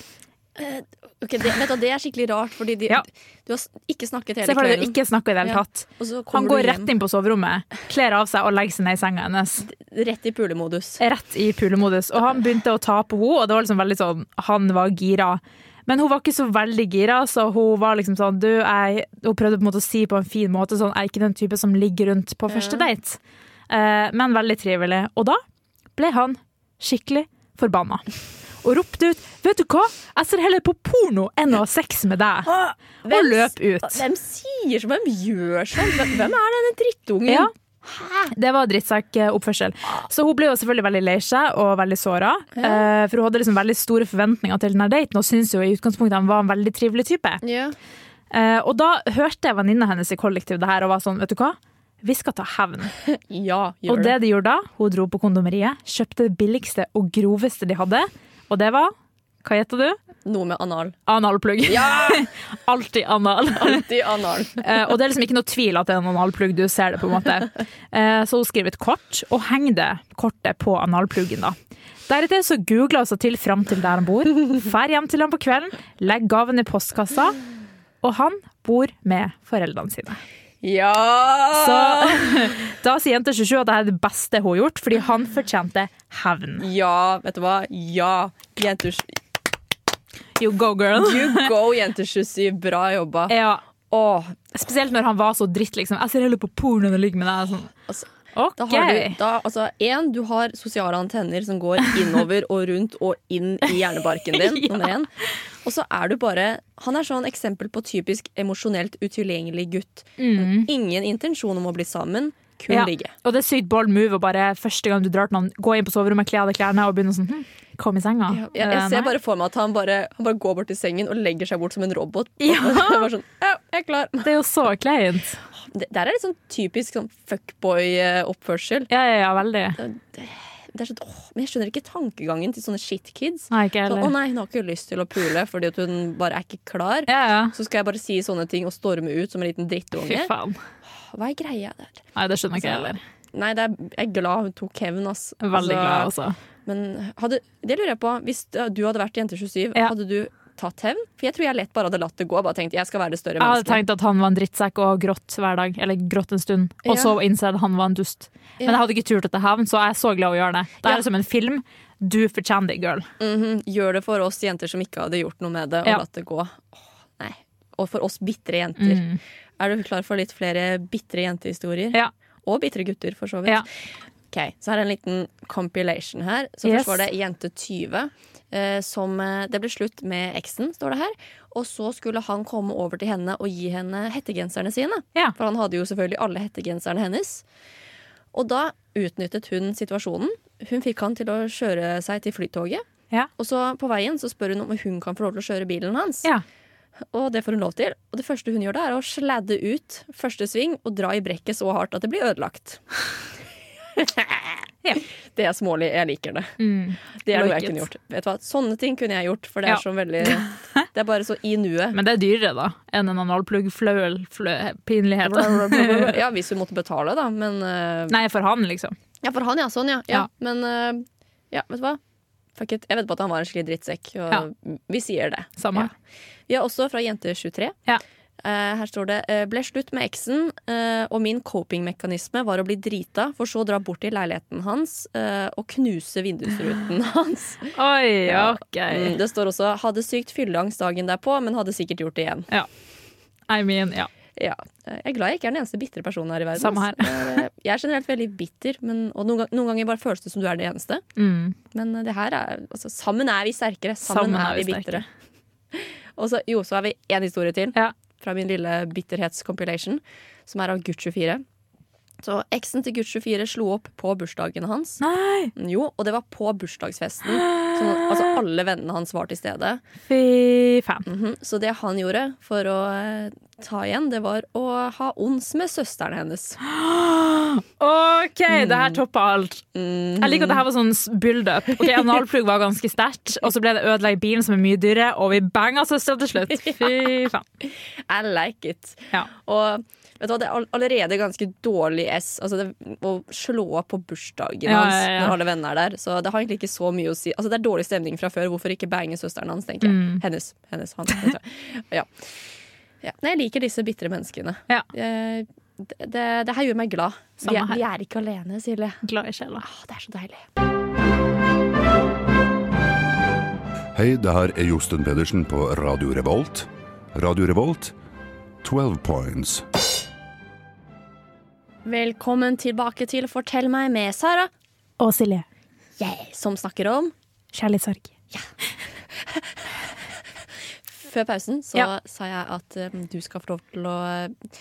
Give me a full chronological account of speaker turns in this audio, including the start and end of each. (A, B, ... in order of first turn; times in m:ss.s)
0:00.6-0:06.9 A
0:04.4-0:09.6 B
0:09.6-0:11.0 A
0:11.0-0:25.4 B
0:22.5-0:22.9 A
0:26.0-0:28.0 B
0:28.6-0:32.5 B
0:32.5-0:38.3 A
0:33.1-0:34.0 B
0:38.3-0:47.4 B
0:42.5-0:42.8 A
0:47.4-0:47.8 A
0:48.3-0:52.9 B
0:53.1-0:54.2 A
0:53.9-1:00.0 B
1:00.2-1:01.0 A
1:01.1-1:03.8 B
1:01.6-1:02.3 A
1:03.5-1:04.8 A
1:04.6-1:11.6 B
1:12.1-1:17.4 B
1:18.0-1:20.2 B
1:20.6-1:22.5 A
1:21.5-1:26.6 B
1:26.6-1:29.2 A
1:30.4-1:31.5 B
1:30.9-1:33.4 A
1:33.3-1:33.6 B
1:33.9-1:34.5 A
1:34.5-1:37.7 B
1:37.9-1:45.1 A
1:38.3-1:39.2 B
1:44.3-1:44.9 B
1:45.6-1:53.1 A
1:50.2-1:50.7 B
1:52.7-1:59.1 B
1:58.3-2:04.3 A
2:02.4-2:03.1 B
2:04.2-2:05.4 B
2:05.6-2:08.9 A
2:08.9-2:09.8 B
2:09.8-2:20.3 A
2:13.5-2:14.1 B
2:17.1-2:17.5 B
2:20.0-2:20.6 B
2:21.1-2:26.1 A
2:22.1-2:23.0 B
2:25.4-2:26.4 B
2:26.6-2:33.8 A
2:33.4-2:43.1 B
2:36.8-2:37.1 A
2:43.2-2:49.0 A
2:48.8-2:49.2 B
2:49.6-2:53.7 A
2:54.3-3:07.4 A
2:56.6-2:57.0 B
3:08.3-3:12.8 A
3:13.4-3:16.3 A
3:17.1-3:22.8 A
3:24.0-3:24.6 A
3:25.3-3:26.5 A
3:26.6-3:27.9 B
3:27.2-3:32.0 A
3:29.6-3:30.8 B
3:31.9-3:36.2 B
3:35.2-3:38.2 A
3:38.1-3:38.9 B
3:39.2-3:42.0 A
3:42.6-3:45.9 A
3:45.6-3:45.9 B
3:46.5-3:47.8 A
3:48.4-3:57.7 A
3:57.7-3:59.2 B
3:58.2-4:02.5 A
4:03.5-4:04.1 B
4:04.4-4:11.0 A
4:06.6-4:07.4 B
4:11.2-4:11.6 B
4:11.7-4:15.0 A
4:14.0-4:15.0 B
4:15.7-4:21.4 A
4:22.2-4:25.0 A
4:25.0-4:25.5 B
4:25.5-4:29.8 A
4:27.3-4:28.4 B
4:30.1-4:31.0 B
4:31.0-4:36.6 A
4:36.6-4:39.6 B
4:38.5-4:39.0 A
4:39.7-4:40.6 A
4:40.2-4:47.4 B
4:46.5-5:02.1 A
4:54.6-4:55.4 B
4:59.8-5:00.2 B
5:03.0-5:09.0 A
5:07.4-5:07.8 B
5:09.0-5:09.6 B
5:09.6-5:10.4 A
5:13.9-5:17.9 C
5:18.6-5:19.6 C
5:21.8-5:24.5 A
5:25.0-5:25.4 B
5:26.0-5:27.1 A
5:27.5-5:28.1 B
5:29.1-5:29.4 A
5:30.9-5:34.4 A